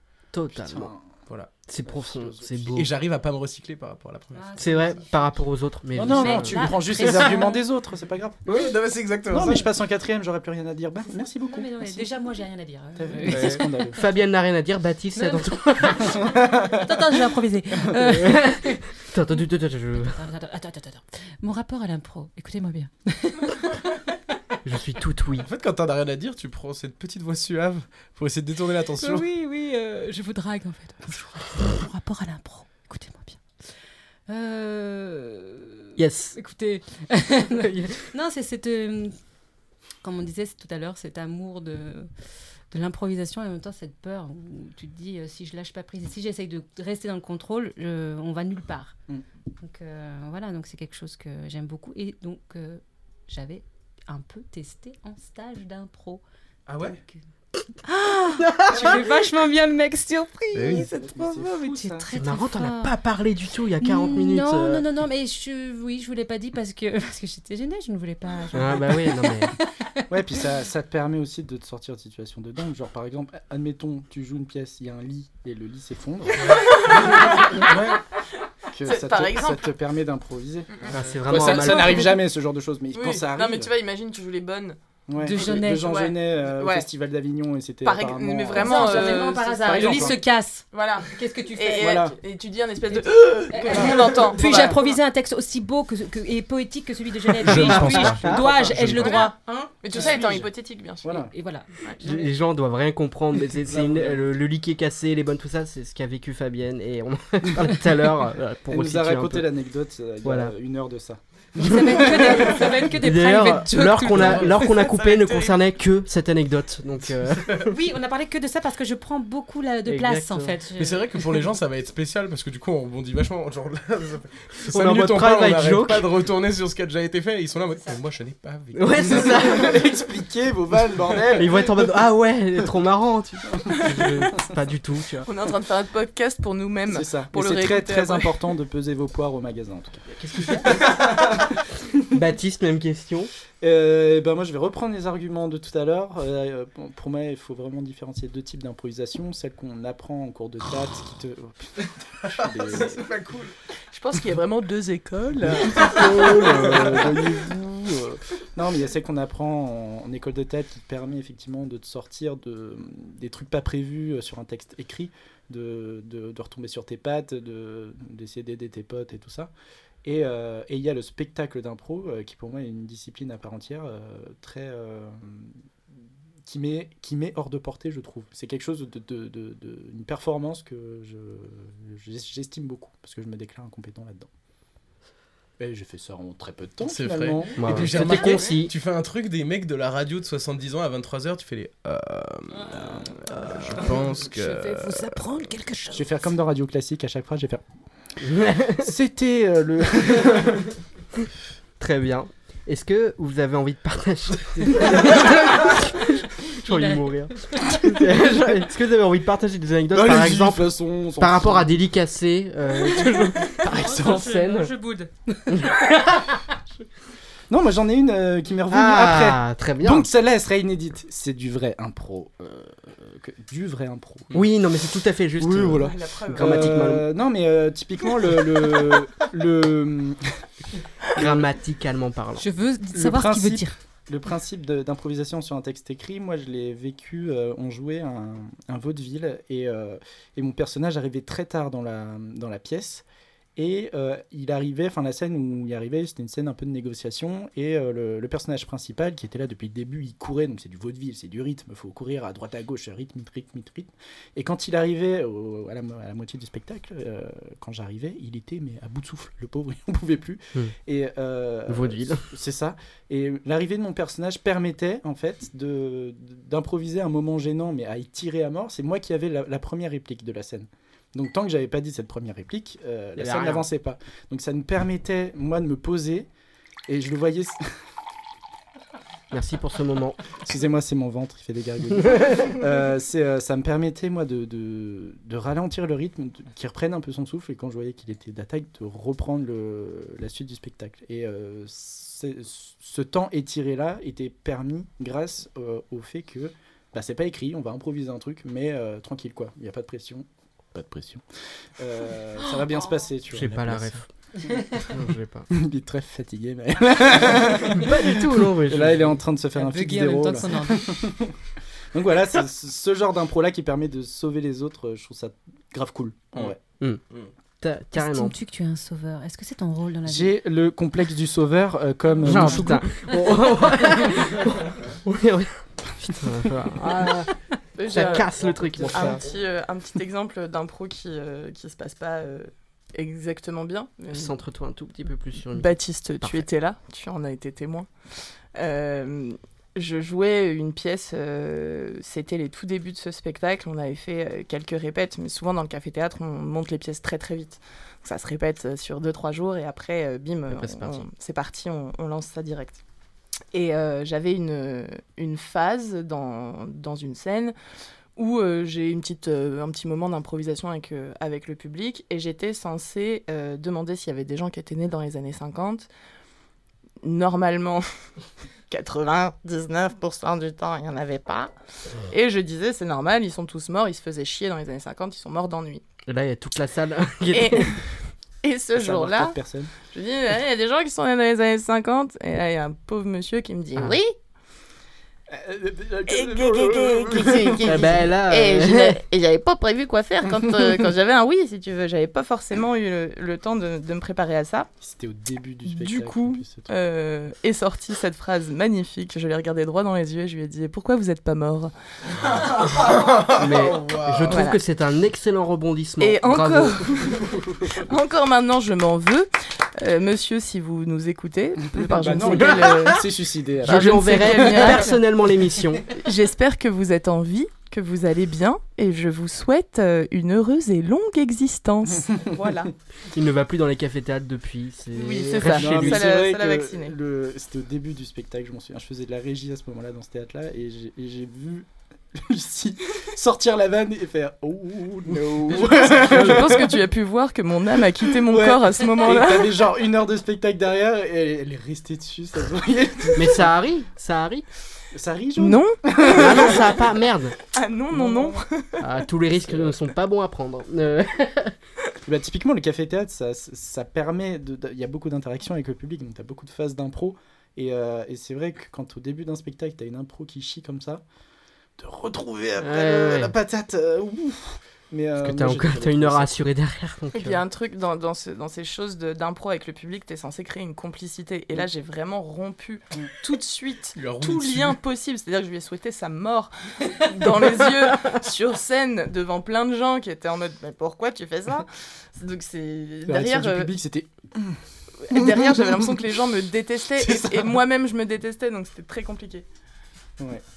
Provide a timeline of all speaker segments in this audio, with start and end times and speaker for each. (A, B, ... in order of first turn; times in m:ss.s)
0:00.3-0:00.9 A
0:00.5-0:01.0 B
0:01.7-0:02.9 A
0:01.8-0:02.8 B
0:02.7-0:04.5 C
0:04.3-0:07.7 D
0:04.6-0:06.6 A
0:05.9-0:08.4 B
0:08.4-0:09.5 C
0:09.3-0:12.1 B
0:11.5-0:13.9 D
0:12.9-0:14.0 B
0:13.2-0:16.2 A
0:15.1-0:24.0 D
0:16.2-0:16.8 B
0:18.1-0:20.2 A
0:24.6-0:25.5 A
0:25.4-0:29.2 C
0:29.0-0:33.4 D
0:34.3-0:39.2 D
0:36.0-0:36.4 A
0:40.0-0:42.1 D
0:42.7-0:48.9 D
0:49.6-0:56.2 D
0:56.7-0:57.0 B
0:56.8-0:57.1 D
0:57.8-1:03.0 D
0:58.5-0:58.8 A
1:00.6-1:02.1 B
1:02.2-1:04.8 A
1:03.8-1:10.0 D
1:08.5-1:09.5 A
1:10.1-1:17.8 B
1:16.4-1:16.9 C
1:16.7-1:17.8 E
1:17.6-1:18.0 C
1:18.7-1:23.7 B
1:18.8-1:19.7 E
1:20.8-1:22.2 E
1:20.9-1:22.1 A
1:22.9-1:24.8 E
1:25.1-1:30.2 B
1:25.2-1:25.9 D
1:25.4-1:26.8 E
1:27.8-1:34.8 E
1:28.5-1:32.0 D
1:31.8-1:32.1 B
1:32.9-1:40.3 D
1:33.6-1:34.8 B
1:37.4-1:39.1 C
1:37.5-1:38.4 A
1:37.5-1:39.0 B
1:39.0-1:41.2 E
1:39.9-1:40.4 B
1:41.0-1:41.3 B
1:41.3-1:42.3 D
1:42.0-1:49.5 A
1:43.7-1:44.2 B
1:48.7-1:52.5 B
1:50.2-1:50.5 A
1:51.6-1:54.9 D
1:51.6-1:57.7 A
1:54.1-1:54.5 C
1:54.8-1:55.6 E
1:57.6-2:01.4 D
1:59.8-2:00.6 A
2:00.8-2:08.8 C
2:04.6-2:06.1 A
2:08.7-2:09.8 A
2:09.0-2:11.7 B
2:11.4-2:15.3 A
2:13.5-2:13.9 B
2:15.2-2:18.3 E
2:16.9-2:21.4 B
2:20.2-2:21.2 A
2:22.1-2:23.3 A
2:23.6-2:33.1 B
2:32.6-2:33.5 C
2:33.9-2:37.2 E
2:35.4-2:49.5 B
2:50.0-2:55.6 B
2:56.4-3:04.3 B
3:05.6-3:08.3 B
3:06.8-3:15.2 C
3:07.6-3:08.7 A
3:08.0-3:08.5 D
3:13.2-3:16.2 D
3:15.9-3:17.6 B
3:18.2-3:18.9 A
3:18.8-3:20.7 B
3:21.8-3:34.7 A
3:25.1-3:25.7 D
3:26.6-3:27.8 D
3:29.9-3:31.8 B
3:32.7-3:36.4 D
3:33.6-3:34.3 B
3:35.5-3:36.0 A
3:37.5-3:44.5 B
3:38.7-3:40.1 A
3:44.3-3:47.1 A
3:45.4-3:50.2 B
3:45.7-3:46.8 E
3:51.2-3:52.4 A
3:51.2-3:51.4 B
3:52.4-3:53.8 D
3:52.9-4:03.0 B
4:03.6-4:36.3 B
4:21.7-4:22.3 A
4:33.2-4:33.6 A
4:36.9-4:37.7 B
4:39.3-4:40.2 A
4:40.4-5:01.2 B
5:01.8-5:03.9 B
5:02.4-5:02.9 D
5:03.3-5:04.1 A
5:04.5-5:04.8 D
5:04.8-5:05.5 A
5:05.5-5:11.3 B
5:07.6-5:09.2 A
5:09.6-5:11.1 D
5:11.9-5:16.6 B
5:17.6-5:18.4 A
5:17.9-5:20.4 D
5:20.0-5:22.8 B
5:22.2-5:23.3 D
5:22.2-5:27.3 A
5:27.7-5:34.3 E
5:27.8-5:29.2 A
5:34.1-5:36.4 A
5:35.5-5:37.9 E
5:38.5-5:52.8 E
5:50.5-5:51.0 A
5:53.5-5:57.5 E
5:58.2-6:05.9 E
6:07.0-6:07.8 E
6:08.7-6:11.5 E
6:12.0-6:15.8 E
6:16.1-6:17.8 A
6:17.3-6:17.8 E
6:18.4-6:19.3 E
6:18.7-6:19.7 B
6:19.9-6:24.1 E
6:25.3-6:27.9 B
6:26.1-6:34.7 E
6:27.6-6:29.0 A
6:34.8-6:36.7 B
6:35.6-6:41.7 E
6:42.3-6:44.4 C
6:43.3-6:47.2 A
6:44.3-6:44.6 E
6:46.0-6:53.1 E
6:51.8-6:54.8 B
6:52.4-6:52.7 A
6:53.6-6:55.0 E
6:53.6-6:55.8 A
6:55.9-7:02.7 E
7:03.1-7:06.0 A
7:04.9-7:06.9 E
7:05.4-7:16.8 B
7:15.6-7:19.6 E
7:18.1-7:23.5 B
7:23.1-7:24.4 A
7:24.9-7:26.8 B
7:25.4-7:26.8 E
7:26.0-7:27.4 A
7:27.5-7:28.8 E
7:27.9-7:28.4 B
7:28.8-7:31.5 A
7:32.0-7:41.0 B
7:41.8-7:46.3 B
7:42.6-7:43.3 A
7:45.2-7:47.4 A
7:47.1-8:03.7 E
7:54.0-7:54.8 C
8:03.0-8:04.6 B
8:05.0-8:09.4 E
8:05.1-8:06.1 B
8:06.9-8:07.5 B
8:10.2-8:10.4 B